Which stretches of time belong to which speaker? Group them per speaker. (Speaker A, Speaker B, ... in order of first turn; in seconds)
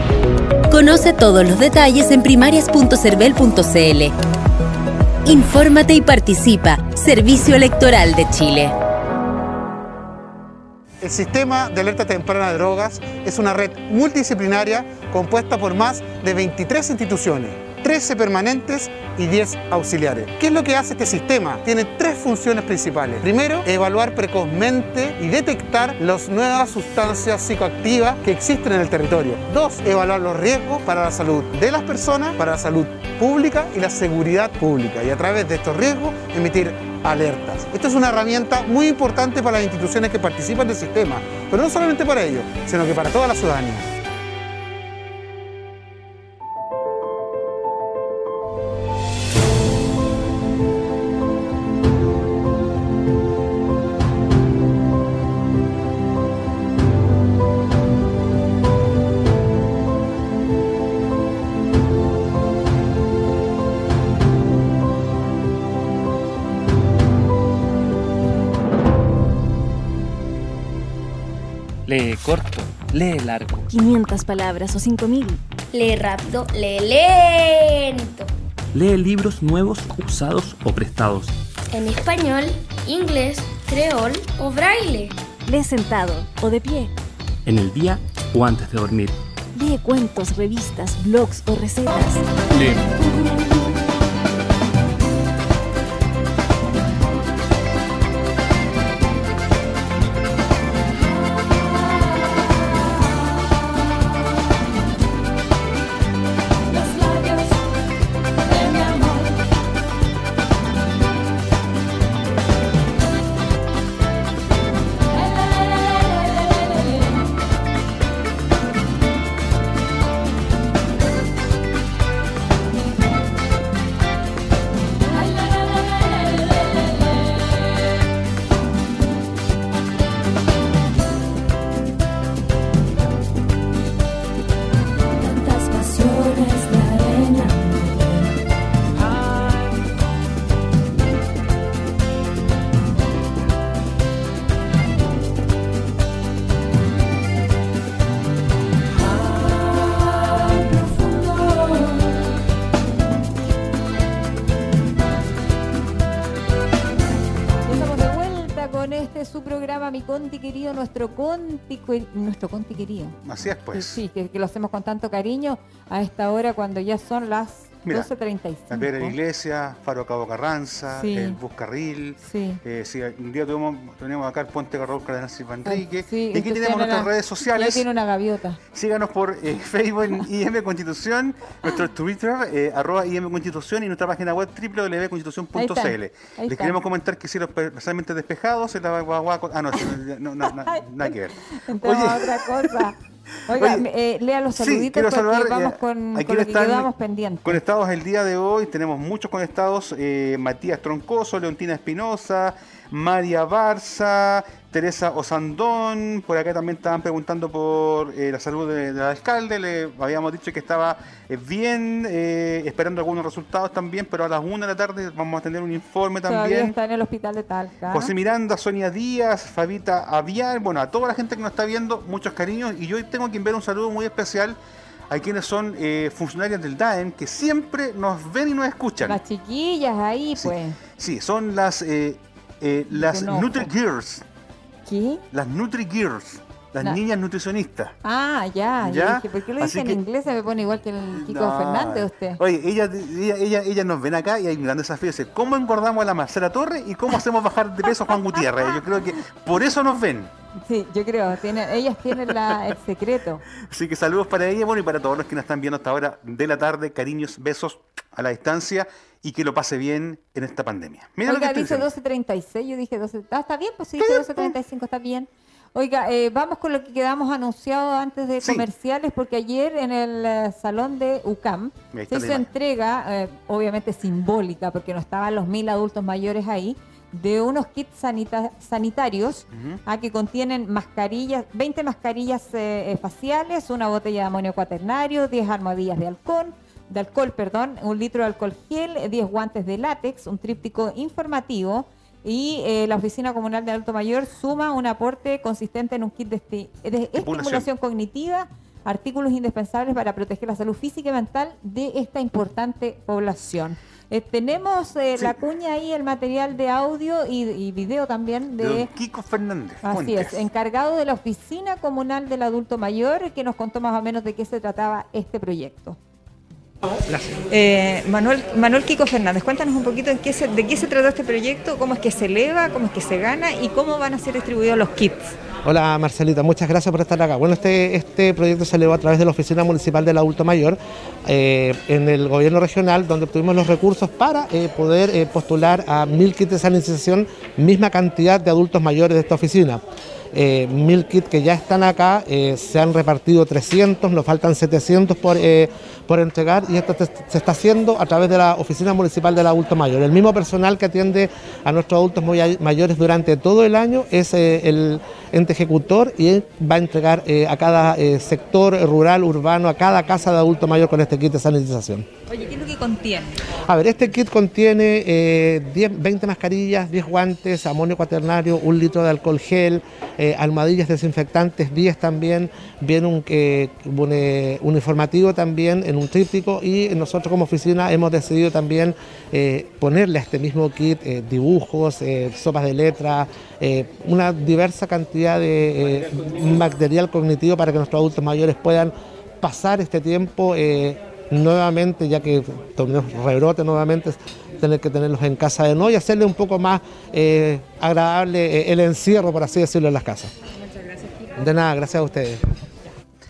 Speaker A: 0.7-4.1, 5.2-8.7
Speaker B: 11.0-43.9
Speaker C: 71.8-73.7, 78.7-81.3, 87.5-89.1
Speaker D: 73.7-75.4, 85.5-86.9, 89.5-92.2, 106.9-107.4, 135.2-138.3
Speaker E: 75.7-78.3, 81.7-85.2
Speaker F: 157.7-163.2, 163.7-169.2, 170.9-171.4, 172.2-172.6, 175.6-178.6, 185.5-186.8, 190.7-192.9, 193.5-197.6, 216.3-218.1, 229.0-230.8, 232.9-233.7, 234.8-235.2, 238.0-242.4, 248.1-248.8, 250.7-253.4, 261.3-308.9, 309.8-316.0, 317.5-325.3, 362.3-363.4
Speaker G: 163.2-164.0, 168.7-177.8, 178.7-192.8, 193.6-193.8, 194.5-196.9, 197.4-216.7, 217.9-224.6, 225.1-229.2, 230.4-234.2, 235.3-237.9, 238.8-240.0, 241.1-250.3, 253.6-261.9, 264.0-264.5, 268.4-268.7, 271.9-272.5, 279.5-279.8, 297.1-297.7, 308.6-310.4
Speaker H: 317.1-317.4, 325.6-362.1, 363.7-400.3, 401.3-402.4